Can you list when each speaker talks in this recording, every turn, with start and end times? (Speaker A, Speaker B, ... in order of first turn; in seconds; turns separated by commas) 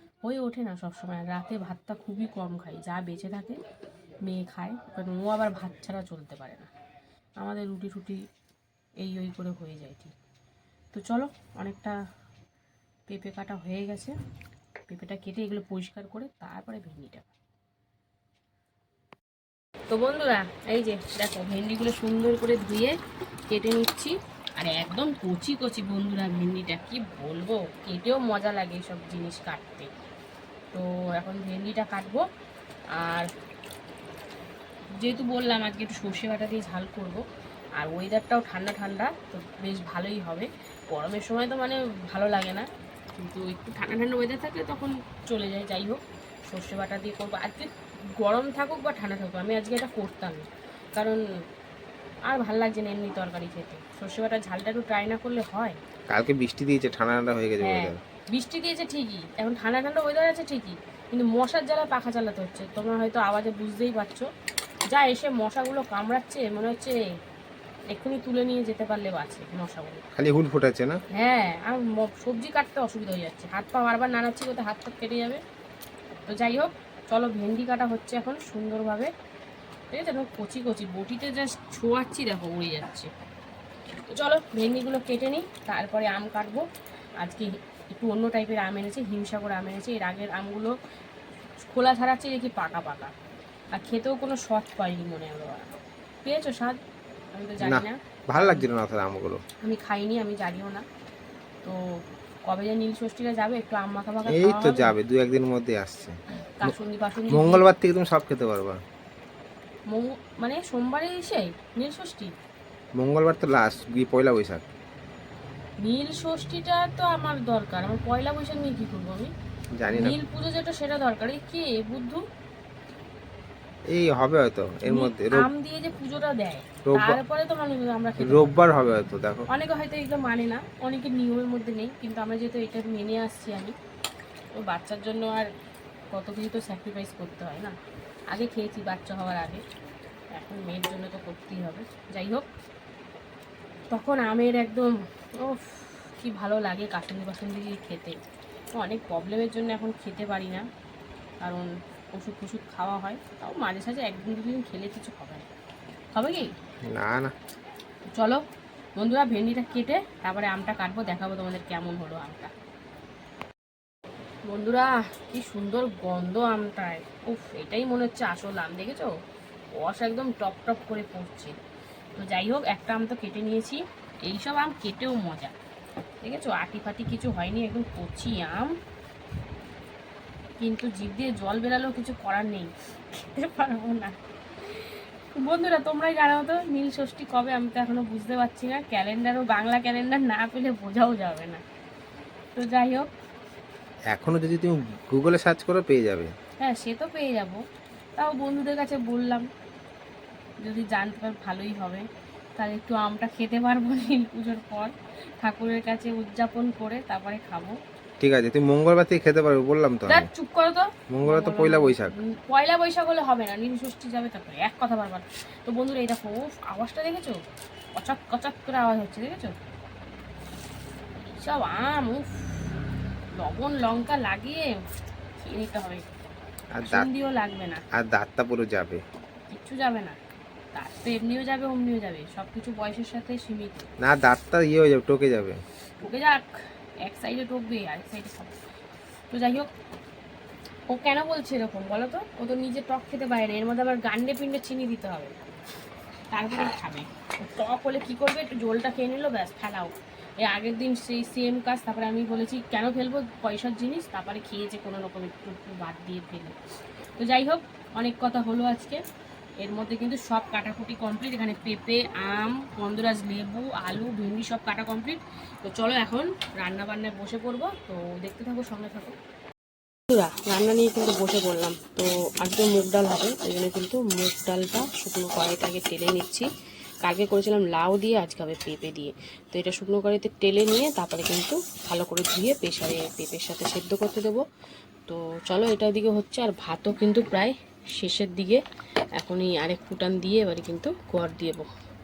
Speaker A: 0.2-3.6, Speaker A: 4.3-6.7, Speaker A: 7.4-8.2, Speaker A: 9.0-10.1, Speaker A: 10.9-12.0, Speaker A: 13.1-14.2, Speaker A: 14.9-17.3, Speaker A: 19.9-22.9, Speaker A: 23.5-29.9, Speaker A: 30.7-32.2, Speaker A: 33.0-33.3, Speaker A: 35.0-37.2, Speaker A: 37.8-42.7, Speaker A: 43.2-51.2, Speaker A: 52.3-55.8, Speaker B: 56.1-58.0, Speaker A: 57.6-64.3, Speaker A: 64.9-67.0, Speaker A: 67.9-70.0, Speaker B: 70.2-71.0, Speaker A: 71.1-75.4, Speaker A: 76.3-79.1, Speaker A: 79.9-83.1, Speaker A: 84.1-86.6, Speaker A: 87.2-90.8, Speaker A: 91.6-93.1, Speaker A: 93.8-96.8, Speaker A: 97.3-98.7, Speaker B: 97.6-99.4, Speaker A: 99.6-100.8, Speaker A: 102.5-105.0, Speaker B: 104.3-106.8, Speaker A: 106.6-107.7, Speaker B: 107.3-108.8, Speaker A: 109.9-112.3, Speaker B: 113.0-114.6, Speaker A: 115.8-119.3, Speaker B: 119.8-120.2, Speaker A: 119.9-122.2, Speaker B: 123.9-125.5, Speaker A: 124.9-128.5, Speaker B: 126.9-127.2, Speaker B: 128.2-129.5, Speaker A: 129.5-133.8, Speaker A: 134.6-135.5, Speaker A: 136.1-137.7, Speaker A: 138.3-139.6, Speaker A: 140.3-142.5, Speaker A: 143.9-148.2, Speaker A: 148.8-150.7, Speaker A: 151.4-155.5, Speaker A: 156.1-156.5, Speaker B: 156.9-157.3, Speaker A: 158.1-158.4, Speaker A: 159.0-162.5, Speaker A: 164.5-169.1, Speaker A: 169.8-171.6, Speaker A: 172.2-175.6, Speaker A: 176.2-178.7, Speaker A: 180.6-184.2, Speaker A: 184.7-191.6, Speaker A: 192.6-193.1, Speaker B: 194.1-196.3, Speaker A: 196.6-197.6, Speaker A: 198.2-199.5, Speaker A: 200.6-202.1, Speaker A: 202.6-207.8, Speaker B: 208.2-210.3, Speaker A: 210.1-217.4, Speaker B: 211.1-212.2, Speaker A: 217.9-219.6, Speaker A: 221.4-222.7, Speaker A: 223.4-224.7, Speaker A: 225.4-226.1, Speaker B: 226.7-227.1, Speaker A: 226.8-227.8, Speaker B: 227.9-229.0, Speaker A: 229.5-230.2, Speaker A: 230.7-233.9, Speaker B: 234.0-235.6, Speaker A: 236.0-236.5, Speaker A: 237.0-238.5, Speaker A: 239.3-239.7, Speaker A: 240.9-245.3, Speaker A: 246.3-256.6, Speaker A: 257.2-259.0, Speaker A: 259.6-269.2, Speaker A: 270.1-276.5, Speaker A: 277.0-284.4, Speaker A: 285.1-288.6, Speaker A: 289.2-291.7